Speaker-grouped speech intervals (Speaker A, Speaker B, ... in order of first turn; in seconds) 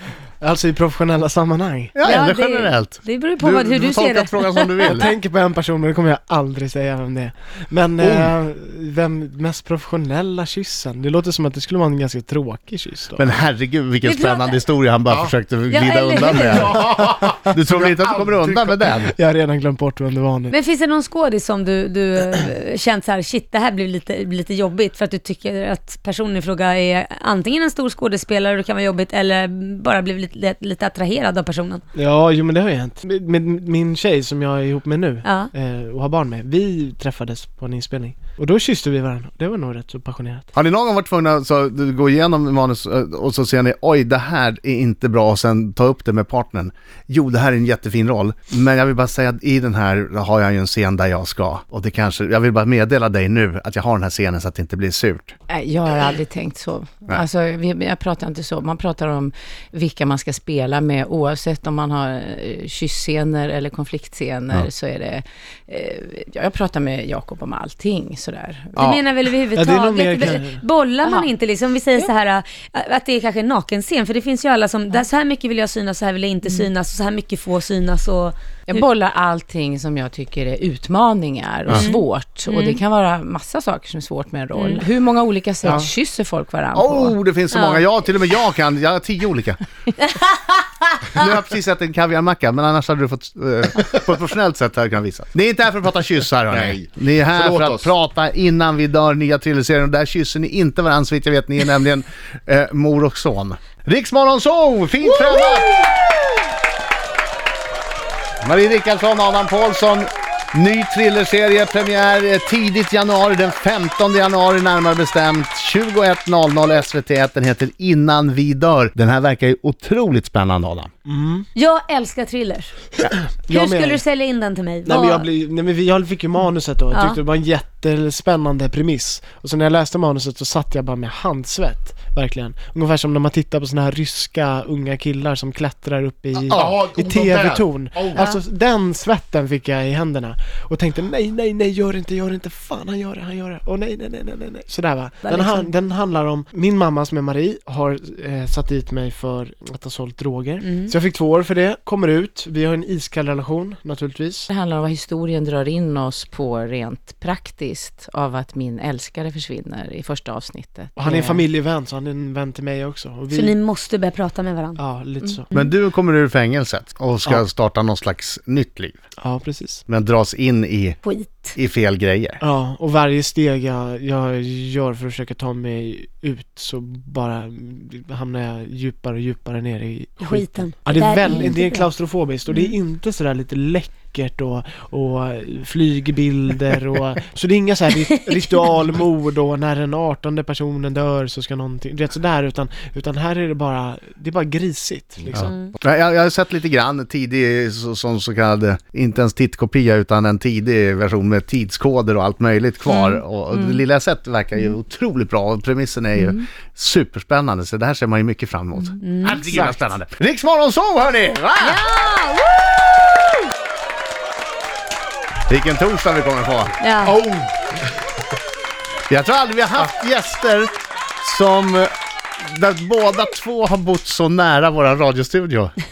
Speaker A: 0.4-2.0, 4.9-13.4, 16.8-17.5, 19.1-20.6, 31.9-40.5, 69.5-70.6, 121.1-121.5, 123.0-124.0, 124.8-154.5, 161.0-163.6, 164.8-165.5, 169.2-169.8, 172.4-195.6
Speaker B: 1.9-5.1, 8.0-8.3, 13.2-17.0, 17.5-19.1, 40.5-55.4, 86.8-89.6, 91.2-105.8, 108.4-120.9, 165.5-169.0, 169.9-171.0, 171.6-172.4, 195.3-211.8, 215.5-216.8, 219.1-220.7, 221.2-225.7
Speaker C: 2.0-5.0, 14.0-14.6, 15.7-16.7, 20.5-31.8, 35.2-35.5, 68.8-78.8, 81.7-82.8, 84.5-84.8, 87.5-87.8, 90.0-91.3, 121.5-122.7, 123.5-125.3, 126.9-127.2, 145.2-145.7, 150.6-150.9, 163.3-164.8, 171.0-171.6, 180.2-181.9, 195.5-195.8, 202.9-203.8, 208.9-209.5, 211.6-212.7, 216.8-217.2
Speaker D: 16.4-18.9, 96.5-97.9, 136.4-138.3, 217.0-217.9
Speaker E: 55.5-69.0, 71.0-71.3, 78.7-87.2, 154.5-161.5